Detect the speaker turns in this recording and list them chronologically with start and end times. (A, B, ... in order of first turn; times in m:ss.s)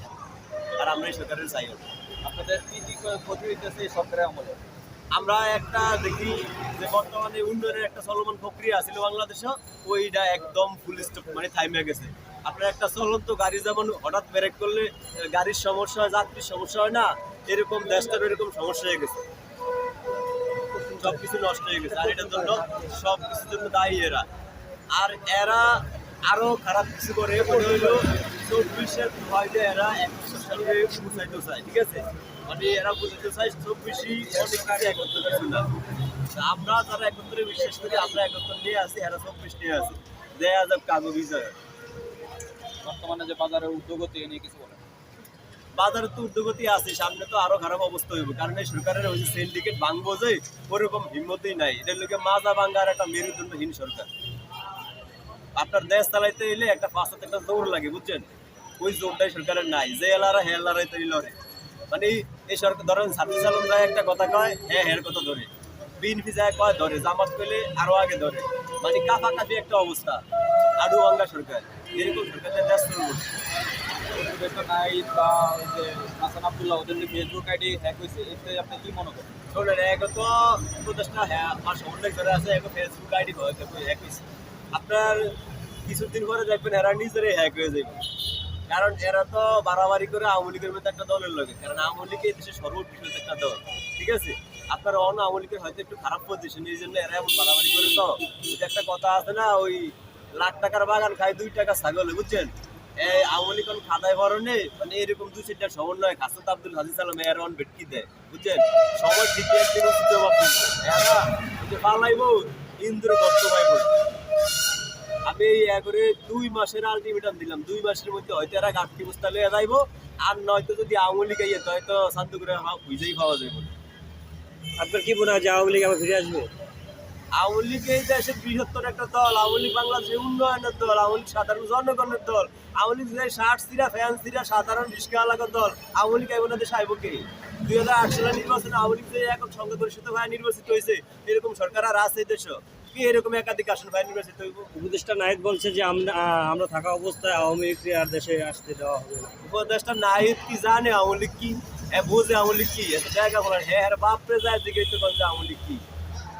0:00.8-0:01.8 A
0:02.2-0:04.6 B
0:05.1-0:19.2 A
0:20.8-0:24.3 A
0:24.9-0:35.7 A
0:36.2-0:41.6 A
0:42.8-0:44.8 B
0:45.7-0:54.1 A
0:55.5-1:01.4 A
1:01.9-1:10.2 A
1:10.8-1:13.3 A
1:14.1-1:19.3 B
1:19.5-1:28.0 A
1:28.7-1:53.9 A
1:55.2-2:03.7 A
2:04.8-2:06.5 C
2:07.3-2:24.7 A
2:24.7-2:29.4 C
2:29.4-2:35.8 A